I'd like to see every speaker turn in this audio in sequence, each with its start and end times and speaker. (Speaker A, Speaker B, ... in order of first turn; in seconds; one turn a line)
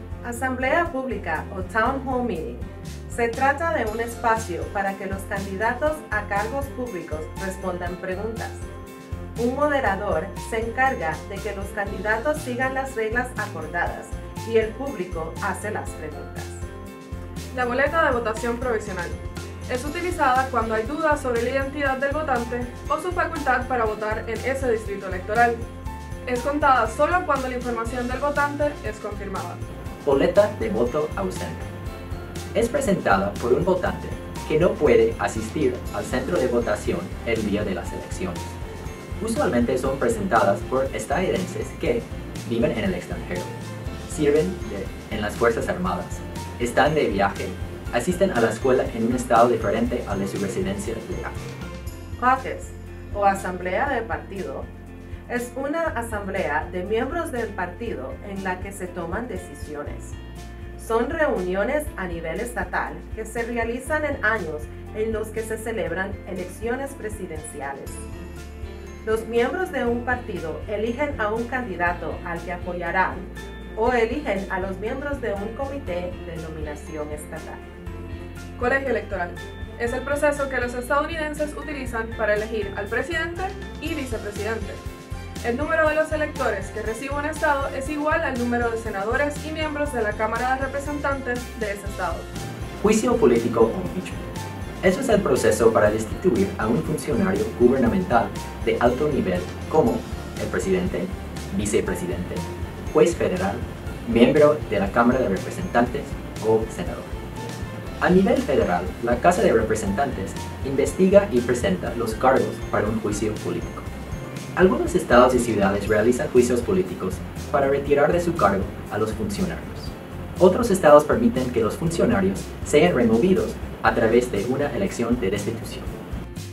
Speaker A: 0.2-8.7
Speaker A: 9.4-16.7
Speaker B: 17.5-25.6
Speaker B: 26.3-29.6
Speaker C: 30.1-31.7
Speaker C: 32.5-38.6
Speaker C: 39.2-43.5
Speaker C: 44.1-51.4
Speaker A: 52.2-54.7
Speaker A: 55.3-60.2
Speaker A: 60.8-68.1
Speaker A: 69.0-77.6
Speaker B: 78.6-84.8
Speaker B: 85.4-92.3
Speaker C: 92.8-94.2
Speaker C: 94.8-107.2
Speaker C: 108.0-113.9
Speaker C: 114.6-125.9